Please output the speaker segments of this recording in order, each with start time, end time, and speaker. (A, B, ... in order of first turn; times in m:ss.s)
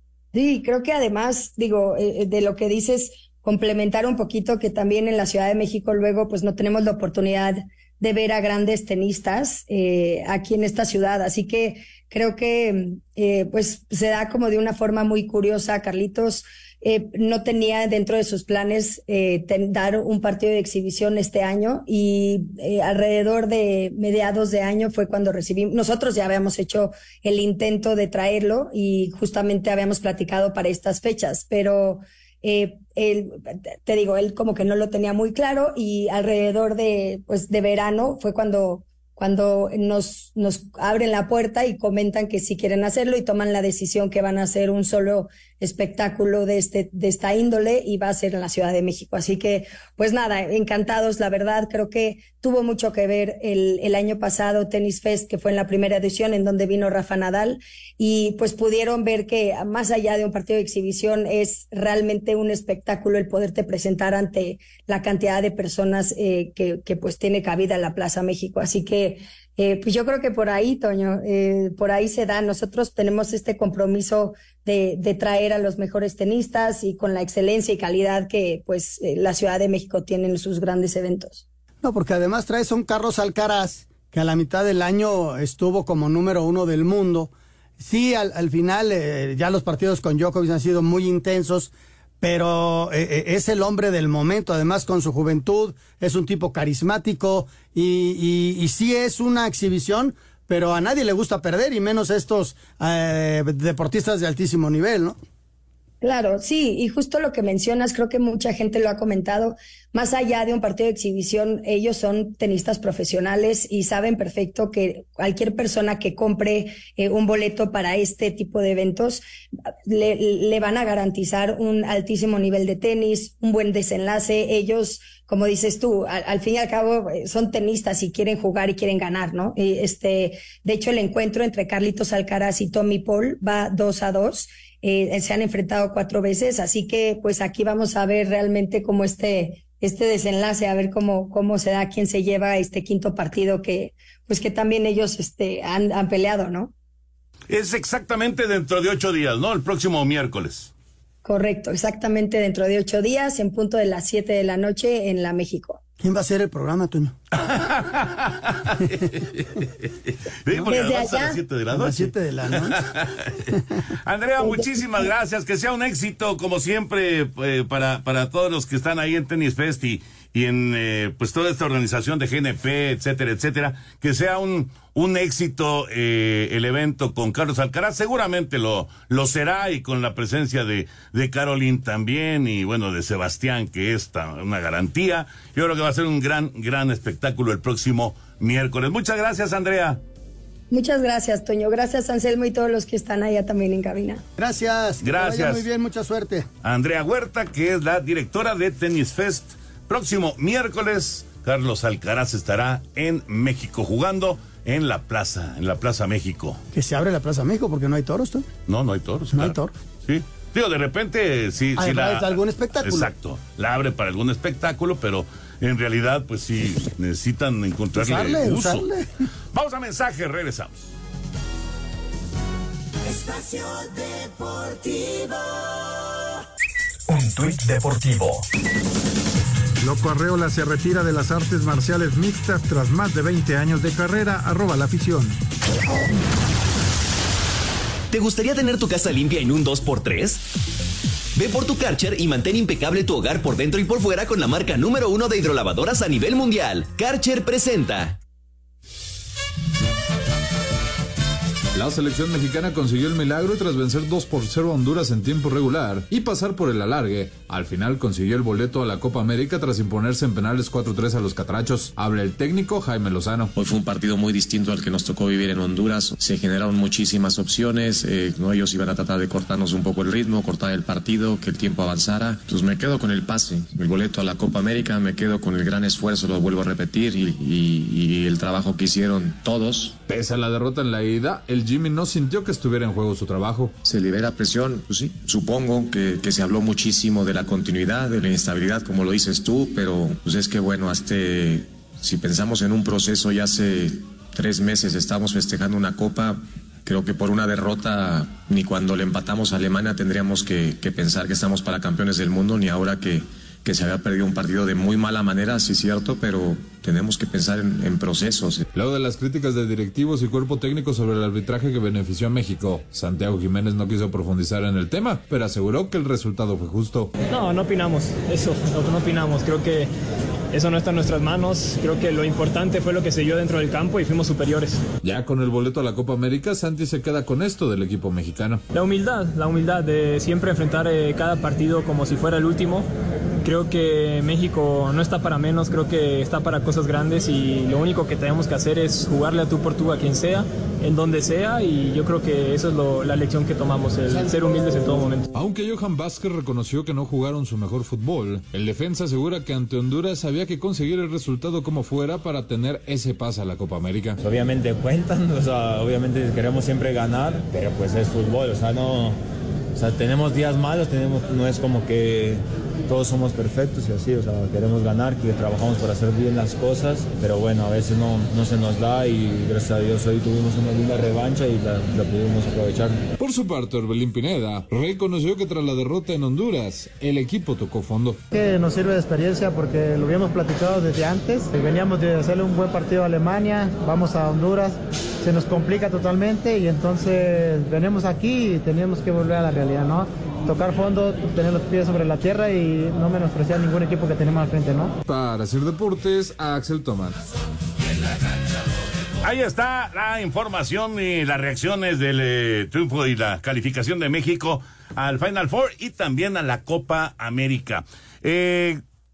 0:00.3-1:21.4 A
1:21.8-1:45.2 B
1:46.0-1:59.2 A
1:59.9-2:26.7 A
2:27.5-2:30.7 C
2:31.2-2:35.8 A
2:36.0-2:37.2 B
2:37.4-2:43.5 C
2:40.7-2:41.4 A
2:41.7-2:42.8 B
2:44.0-3:10.0 C
2:44.4-2:44.7 A
3:10.7-3:14.2 A
3:14.4-3:16.5 B
3:15.0-3:15.7 C
3:16.6-3:26.6 C
3:26.7-3:28.5 B
3:28.7-3:38.9 C
3:29.3-3:29.7 B
3:31.8-3:33.1 B
3:38.0-3:39.1 B
3:39.5-3:40.9 C
3:43.2-3:43.9 D
3:44.6-3:45.1 D
3:47.1-3:48.5 D
3:49.8-3:55.4 E
3:58.1-4:00.4 D
4:01.4-4:08.2 D
4:11.7-4:23.5 F
4:23.6-4:40.0 G
4:40.1-4:43.8 F
4:43.8-5:08.7 G
5:08.7-5:17.1 F
5:17.3-5:19.9 H
5:20.5-5:24.8 H
5:25.0-5:28.6 F
5:28.7-5:32.9 H
5:33.4-5:45.3 H
5:45.3-5:54.2 F
5:54.2-5:59.2 I
5:59.8-6:13.1 I
6:13.2-6:18.2 F
6:18.3-6:34.9 J
6:35.1-6:37.2 F
6:39.2-6:48.8 C